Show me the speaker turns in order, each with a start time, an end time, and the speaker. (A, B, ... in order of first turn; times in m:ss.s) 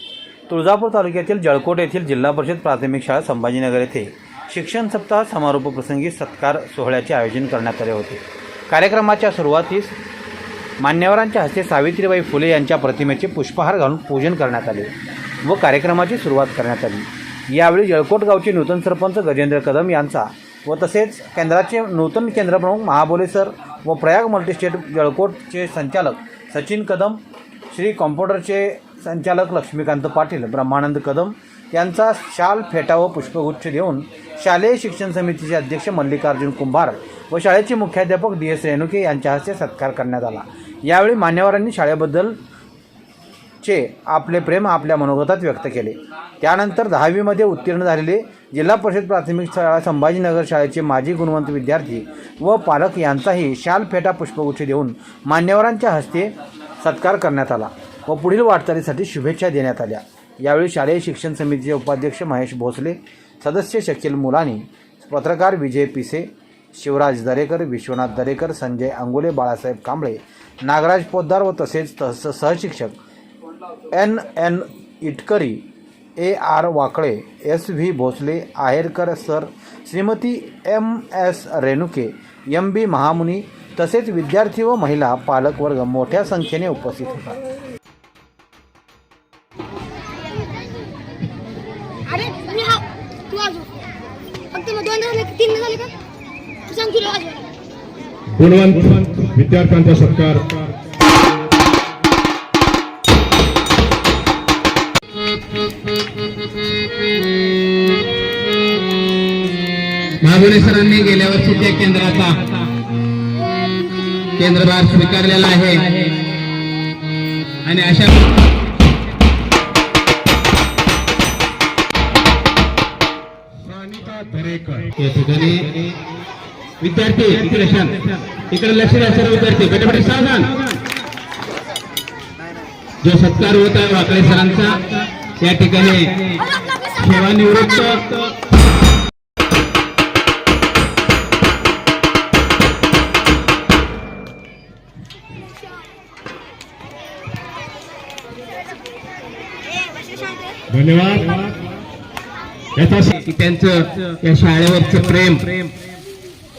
0:00.5-0:09.9 A
0:10.8-0:14.9 A
0:15.4-0:27.2 A
0:27.7-0:42.4 A
0:43.6-1:13.0 A
1:13.9-1:15.6 A
1:16.2-1:27.4 A
1:32.0-1:33.8 B
1:34.5-1:36.0 B
1:36.6-1:37.5 B
1:38.3-1:40.5 C
1:50.2-1:52.4 D
1:53.5-1:54.3 B
1:54.3-1:56.1 D
1:57.6-1:58.3 D
2:03.8-2:04.9 C
2:05.0-2:05.9 D
2:06.8-2:10.6 D
2:13.0-2:18.3 D
2:30.7-2:31.5 C
2:32.7-2:33.2 C
2:33.2-2:35.7 D